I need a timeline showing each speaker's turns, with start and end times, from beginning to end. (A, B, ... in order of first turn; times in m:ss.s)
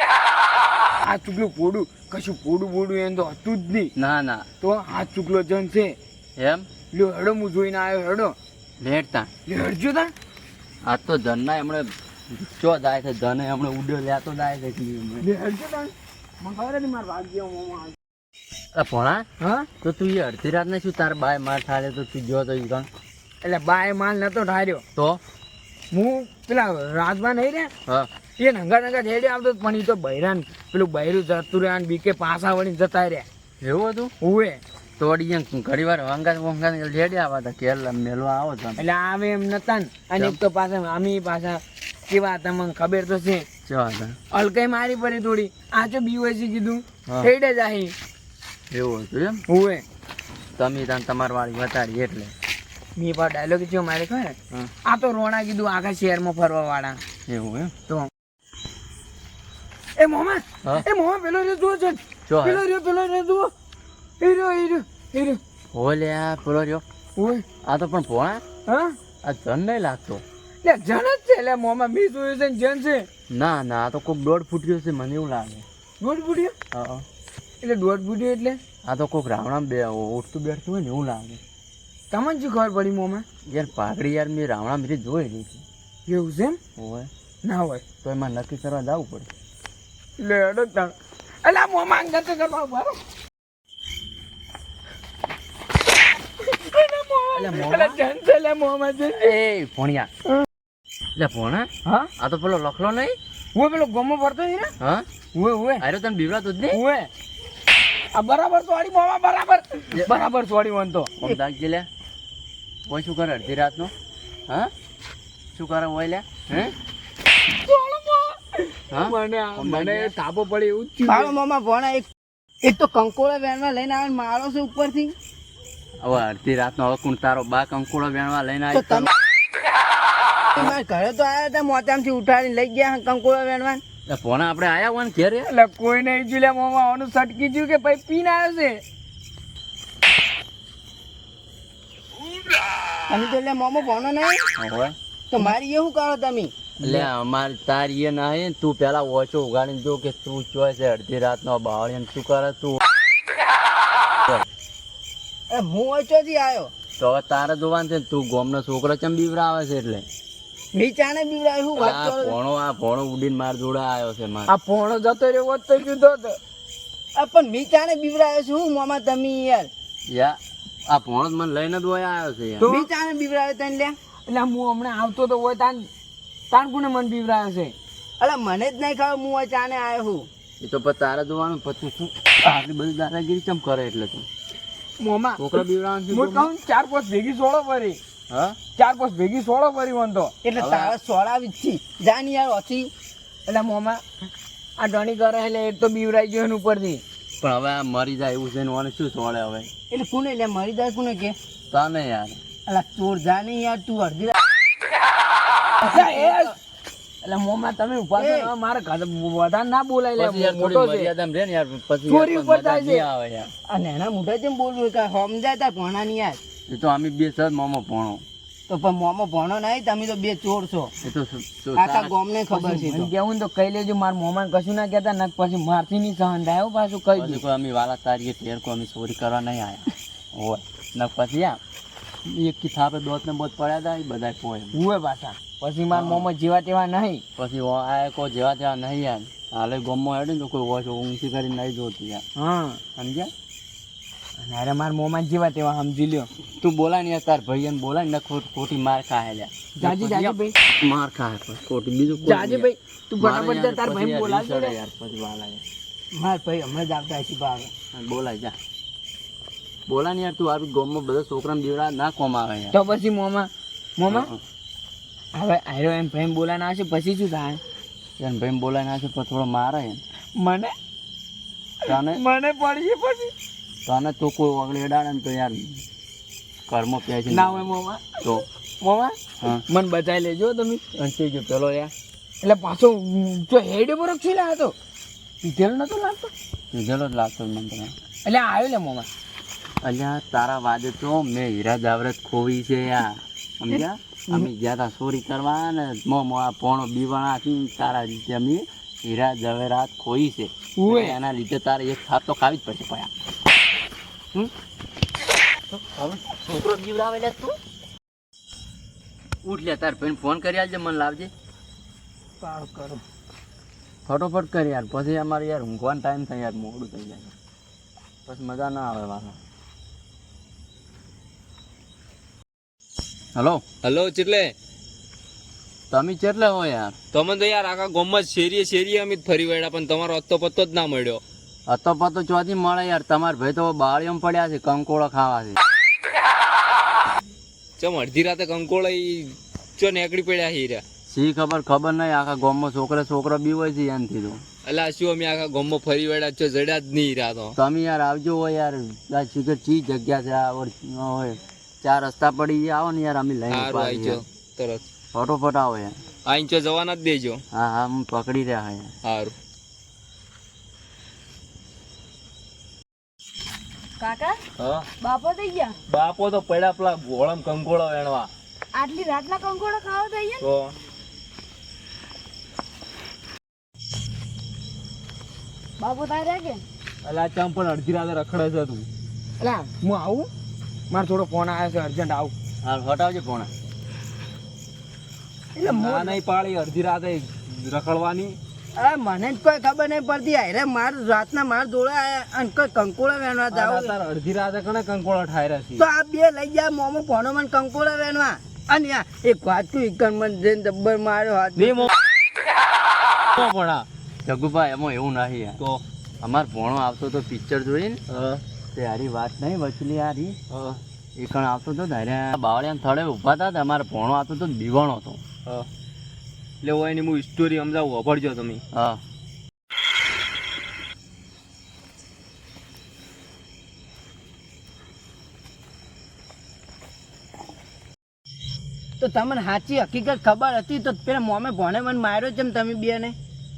0:01.0-0:03.9 A
0:04.0-0:04.4 B
0:04.6-0:06.0 A
0:06.4-0:06.7 B
0:06.9-0:08.4 A
0:08.8-0:09.3 B
0:09.5-0:10.1 A
0:10.8-0:15.3 B
0:15.2-0:18.0 A
0:18.8-0:19.3 B
0:19.4-0:19.7 A
0:19.8-0:22.9 B
0:23.4-0:24.8 A
0:25.0-0:25.2 B
0:25.9-0:27.7 A
0:28.4-0:33.3 A
0:33.6-0:34.1 B
0:34.2-0:34.6 A
0:35.0-0:38.8 B
0:38.8-0:43.5 A
0:43.7-0:44.2 B
0:44.3-0:47.9 A
0:48.7-0:49.4 B
0:49.5-0:49.8 A
0:50.6-0:52.3 B
0:53.0-0:57.0 A
0:57.3-0:57.7 B
1:00.0-1:03.5 A
1:02.3-1:02.6 B
1:04.2-1:05.4 A
1:05.7-1:06.8 B
1:07.2-1:07.5 A
1:07.6-1:08.4 B
1:08.7-1:09.0 A
1:09.2-1:10.2 B
1:10.6-1:13.1 A
1:13.3-1:15.6 B
1:16.0-1:16.6 A
1:16.7-1:17.0 B
1:17.6-1:18.6 A
1:18.8-1:21.4 B
1:22.1-1:23.2 A
1:23.5-1:25.6 B
1:26.1-1:26.6 A
1:26.8-1:27.1 B
1:27.4-1:27.8 A
1:28.0-1:29.3 B
1:30.2-1:33.0 A
1:36.4-1:39.4 A
1:37.3-1:38.0 B
1:39.1-1:40.1 B
1:41.2-1:43.2 B
1:41.8-1:42.1 A
1:43.6-1:44.7 A
1:44.8-1:45.1 B
1:45.4-1:45.8 A
1:45.8-1:46.8 B
1:46.7-1:47.1 A
1:48.1-1:51.1 A
1:51.2-1:51.9 B
1:52.9-1:53.9 B
1:55.5-1:56.7 B
1:57.5-2:01.4 A
1:58.9-2:00.2 B
2:01.1-2:02.1 C
2:02.6-2:05.2 C
2:06.0-2:09.1 B
2:08.7-2:09.1 C
2:10.6-2:13.8 C
2:14.1-2:15.5 B
2:15.5-2:18.8 A
2:23.1-2:24.5 C
2:24.6-2:25.0 B
2:25.3-2:27.1 C
2:26.8-2:32.8 B
2:35.5-2:36.7 C
2:37.0-2:40.1 B
2:40.7-2:42.4 C
2:41.7-2:44.5 B
2:44.5-2:46.4 A
2:47.2-2:49.7 C
2:50.1-2:52.7 B
2:52.6-2:52.9 A
2:52.7-2:54.0 C
2:54.3-2:55.9 A
2:56.5-2:57.8 A
2:58.2-3:00.3 C
3:00.6-3:04.3 B
3:05.0-3:08.0 A
3:05.4-3:06.5 B
3:08.3-3:08.6 B
3:08.8-3:10.3 A
3:10.4-3:12.9 C
3:10.6-3:11.0 B
3:13.5-3:14.0 A
3:14.8-3:17.0 A
3:17.4-3:19.7 B
3:19.9-3:21.4 C
3:21.7-3:22.4 B
3:22.7-3:24.4 C
3:25.8-3:26.6 A
3:25.9-3:26.4 C
3:27.2-3:31.1 A
3:28.1-3:28.5 C
3:30.2-3:33.5 B
3:32.1-3:33.1 A
3:33.7-3:36.4 C
3:36.7-3:38.2 B
3:38.7-3:40.9 C
3:41.0-3:42.2 B
3:41.8-3:43.1 C
3:42.5-3:47.4 A
3:47.2-3:51.6 B
3:52.2-3:54.8 B
3:54.7-3:57.2 A
3:55.9-3:56.3 B
3:57.4-4:02.2 B
4:02.4-4:02.8 A
4:03.0-4:03.3 B
4:04.4-4:06.3 A
4:06.6-4:15.6 B
4:09.8-4:10.6 A
4:12.2-4:14.8 A
4:16.1-4:17.7 C
4:17.9-4:18.6 B
4:19.9-4:22.8 B
4:22.7-4:24.3 A
4:24.1-4:24.4 B
4:25.4-4:27.6 A
4:28.2-4:30.0 B
4:30.4-4:30.7 A
4:31.8-4:32.2 B
4:31.9-4:33.3 A
4:33.9-4:35.8 B
4:36.7-4:38.4 B
4:37.3-4:38.3 A
4:38.8-4:40.8 A
4:40.9-4:41.9 B
4:42.4-4:44.7 A
4:45.4-4:46.3 A
4:46.7-4:47.9 B
4:48.2-4:49.1 A
4:49.8-5:03.1 B
5:00.8-5:01.2 A
5:05.7-5:07.6 B
5:09.4-5:11.3 B
5:12.4-5:13.0 C
5:14.1-5:17.3 B
5:18.3-5:19.4 B
5:23.4-5:23.6 B
5:23.8-5:24.5 D
5:25.9-5:27.0 B
5:27.1-5:31.2 D
5:31.7-5:35.6 B
5:37.8-5:40.8 D
5:41.1-5:44.4 B
5:44.7-5:47.6 D
5:47.6-5:54.2 B
5:53.5-5:54.8 D
5:55.1-5:56.0 B
5:56.3-5:57.4 D
5:57.5-5:58.9 B
5:59.0-5:59.3 D
6:04.0-6:04.4 E
6:04.6-6:04.9 D
6:05.0-6:05.8 E
6:05.9-6:08.3 D
6:08.7-6:10.5 E
6:10.4-6:10.7 D
6:15.8-6:16.6 E
6:17.0-6:18.9 D
6:19.4-6:20.3 A
6:20.9-6:22.3 A
6:22.6-6:23.5 B
6:25.6-6:26.2 C
6:25.7-6:28.4 D
6:28.8-6:34.0 C
6:33.5-6:35.8 D
6:35.8-6:41.9 C
6:41.6-6:41.9 D
6:43.4-6:43.9 D
6:44.2-6:45.6 B
6:46.2-6:48.0 B
6:48.1-6:48.4 D
6:48.7-6:50.4 B
6:50.5-6:50.8 D
6:51.2-6:55.2 B
6:56.6-6:58.6 D
6:58.7-6:59.0 B
7:09.0-7:13.2 C